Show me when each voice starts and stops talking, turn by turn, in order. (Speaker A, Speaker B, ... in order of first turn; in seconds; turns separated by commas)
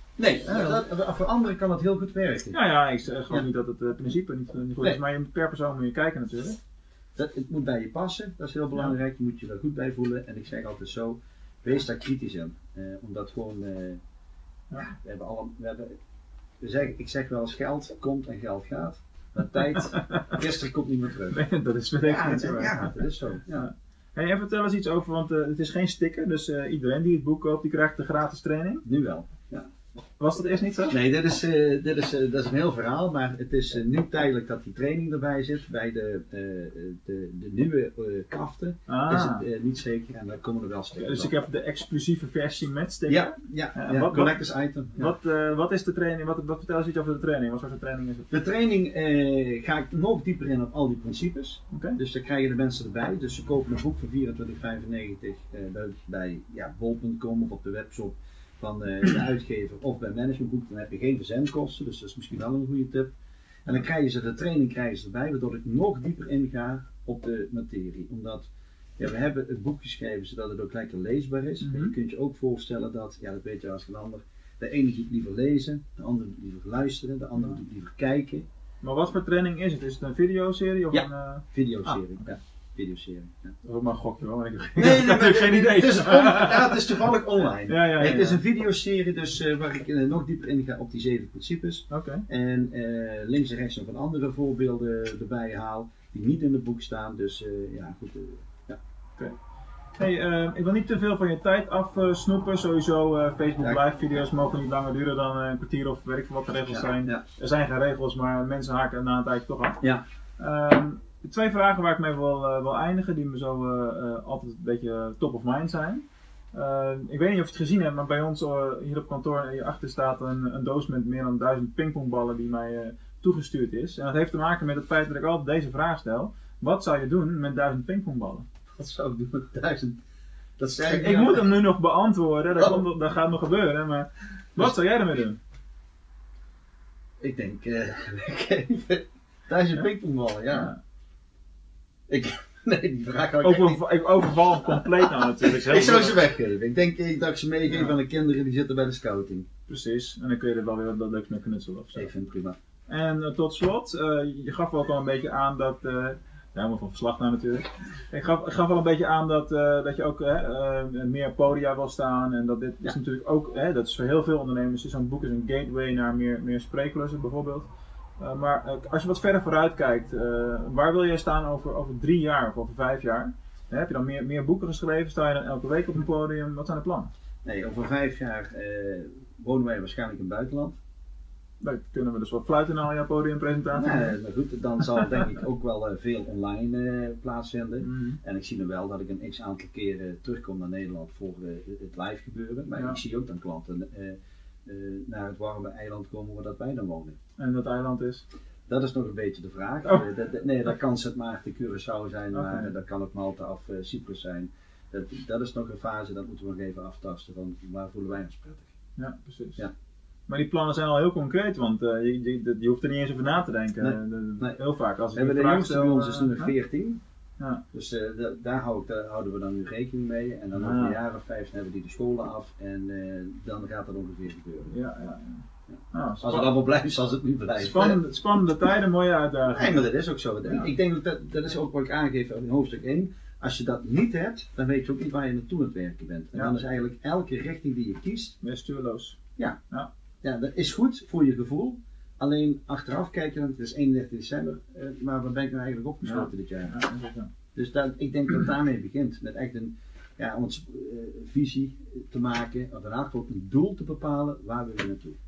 Speaker A: 0.2-2.6, Speaker B: 0.5-0.8, Speaker B: 2.5-6.6, Speaker A: 7.2-14.0, Speaker A: 14.8-16.0, Speaker A: 16.6-21.4, Speaker B: 19.6-20.4, Speaker B: 21.3-22.9, Speaker A: 22.0-23.7, Speaker B: 23.5-28.8, Speaker A: 28.8-29.7, Speaker B: 30.2-30.9, Speaker A: 30.9-41.3, Speaker B: 38.9-39.4, Speaker B: 41.0-44.4, Speaker A: 43.1-45.1, Speaker B: 45.0-48.3, Speaker A: 48.3-63.1, Speaker B: 51.7-52.0, Speaker A: 63.6-78.5, Speaker B: 71.6-71.9, Speaker B: 78.8-82.0, Speaker A: 80.9-83.5, Speaker B: 83.6-87.0, Speaker A: 84.8-98.8, Speaker B: 87.7-88.4, Speaker B: 91.9-92.2, Speaker B: 100.0-109.8, Speaker A: 106.7-107.2, Speaker B: 110.4-128.4, Speaker A: 128.7-130.0, Speaker A: 130.6-131.4, Speaker B: 130.8-135.4, Speaker A: 132.5-132.8, Speaker A: 137.2-140.7, Speaker A: 142.1-143.8, Speaker B: 143.4-146.2, Speaker A: 145.0-149.5, Speaker B: 147.7-147.9, Speaker B: 149.7-152.1, Speaker A: 151.9-152.6, Speaker B: 152.9-167.7, Speaker B: 168.2-177.1, Speaker A: 177.4-180.8, Speaker B: 181.6-184.1, Speaker A: 183.7-197.2, Speaker B: 187.8-188.2, Speaker B: 197.4-198.2, Speaker A: 198.7-208.7, Speaker B: 202.3-202.7, Speaker B: 209.0-209.6, Speaker B: 210.3-216.5, Speaker A: 213.8-214.6, Speaker A: 215.1-217.0, Speaker A: 217.7-224.7, Speaker B: 220.5-221.0, Speaker B: 224.7-226.5, Speaker A: 225.7-228.0, Speaker B: 227.6-229.9, Speaker A: 229.5-238.4, Speaker B: 238.4-239.2, Speaker A: 240.2-246.8, Speaker B: 246.0-247.3, Speaker A: 247.5-255.2